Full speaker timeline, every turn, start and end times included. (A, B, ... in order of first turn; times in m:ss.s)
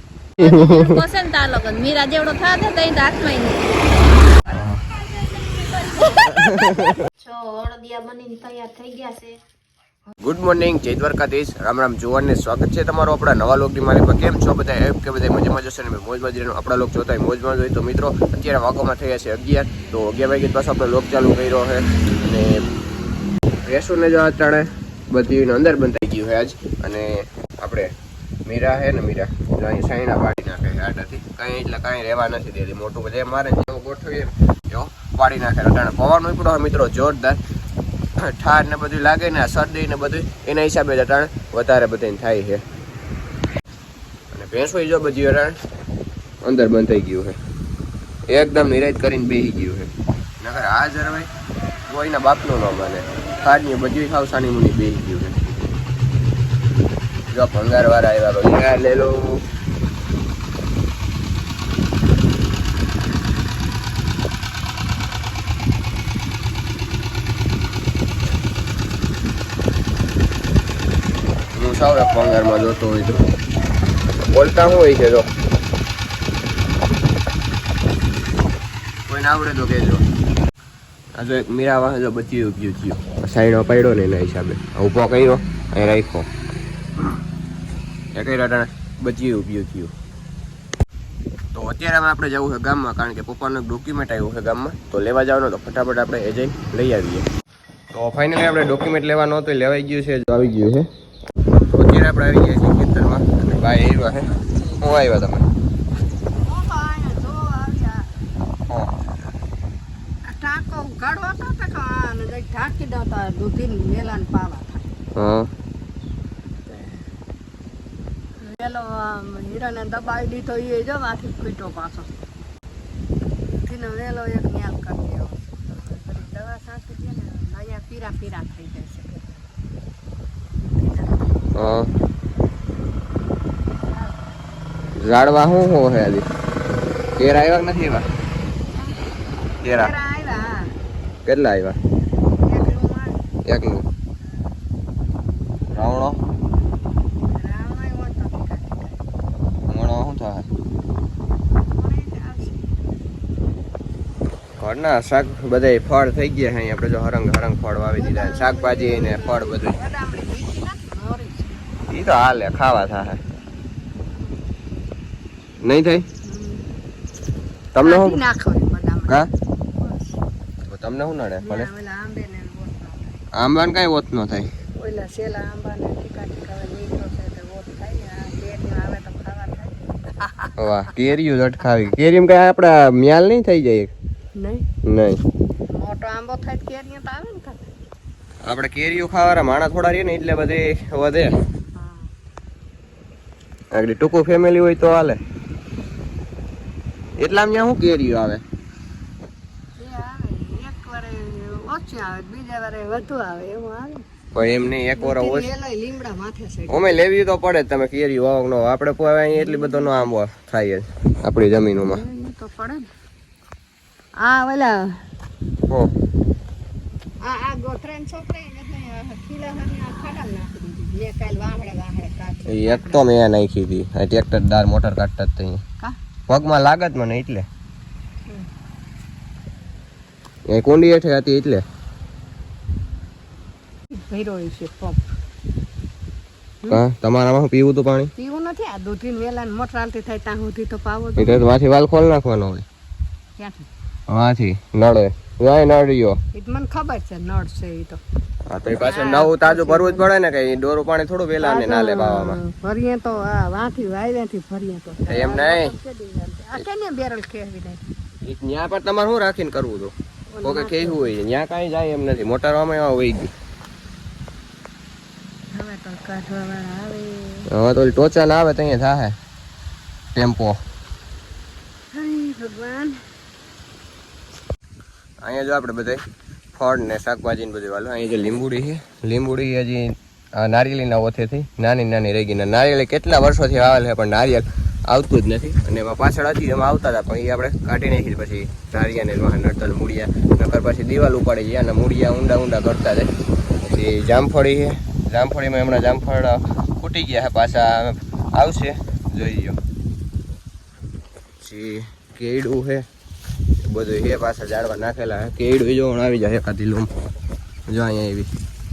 0:00.4-0:04.0 A
0:00.4-0:01.0 B
0:04.5-0:09.4 A
0:04.5-0:04.8 B
0:10.2-0:22.6 B
0:23.6-0:27.9 B
0:28.4-0:37.4 B
0:38.2-0:42.6 B
0:44.3-0:45.6 B
0:46.4-0:47.4 B
0:48.3-0:51.3 B
0:51.9-0:55.4 B
0:57.3-0:59.4 B
1:11.5-1:13.2 B
1:14.3-1:15.2 B
1:19.1-1:20.0 B
1:21.2-1:26.3 B
1:28.1-1:29.9 B
1:31.5-1:37.3 B
1:37.9-1:40.9 B
1:41.7-1:45.4 B
1:46.4-1:48.1 C
1:50.2-1:54.9 C
1:55.1-1:55.5 B
1:56.7-1:57.0 C
1:58.4-2:02.1 C
2:03.6-2:09.4 C
2:10.8-2:11.3 C
2:11.5-2:11.9 B
2:15.0-2:16.3 B
2:17.2-2:18.0 B
2:19.6-2:19.9 B
2:19.7-2:20.7 C
2:21.2-2:21.8 B
2:22.4-2:23.2 C
2:23.4-2:23.8 B
2:25.7-2:26.2 B
2:27.3-2:29.0 C
2:29.7-2:30.5 B
2:31.7-2:32.7 C
2:34.6-2:39.8 B
2:38.0-2:41.6 C
2:41.9-2:43.2 B
2:45.6-2:46.0 B
2:46.2-2:46.6 C
2:47.7-2:48.2 B
2:47.8-2:50.1 C
2:50.7-2:51.7 B
2:51.4-2:53.2 C
2:53.3-2:54.5 B
2:54.8-3:00.5 C
3:00.6-3:03.9 B
3:04.4-3:04.7 C
3:04.8-3:05.2 B
3:05.7-3:07.7 C
3:08.4-3:11.4 B
3:11.7-3:12.1 C
3:13.7-3:15.2 B
3:17.2-3:18.4 B
3:19.8-3:24.0 C
3:24.3-3:25.5 B
3:24.9-3:27.0 C
3:26.7-3:32.0 B
3:31.8-3:32.8 C
3:34.2-3:35.0 C
3:37.2-3:43.1 C
3:42.4-3:45.6 B
3:46.3-3:47.5 B
3:50.5-3:51.6 B
3:54.0-3:55.0 C
3:56.7-3:58.1 B
3:58.2-4:01.4 C
4:01.2-4:02.6 B
4:03.4-4:03.7 C
4:04.1-4:06.2 B
4:06.3-4:08.0 C
4:08.5-4:12.4 B
4:08.8-4:10.0 C
4:11.4-4:17.8 C
4:15.1-4:15.7 B
4:18.2-4:23.3 B
4:20.3-4:21.1 C
4:25.5-4:27.5 C
4:27.5-4:29.2 B
4:30.1-4:30.6 B
4:31.9-4:33.0 C
4:35.2-4:36.0 B
4:36.5-4:53.1 B
4:53.6-4:59.6 B
5:01.4-5:02.8 B
5:03.6-5:06.9 B
5:07.7-5:08.3 B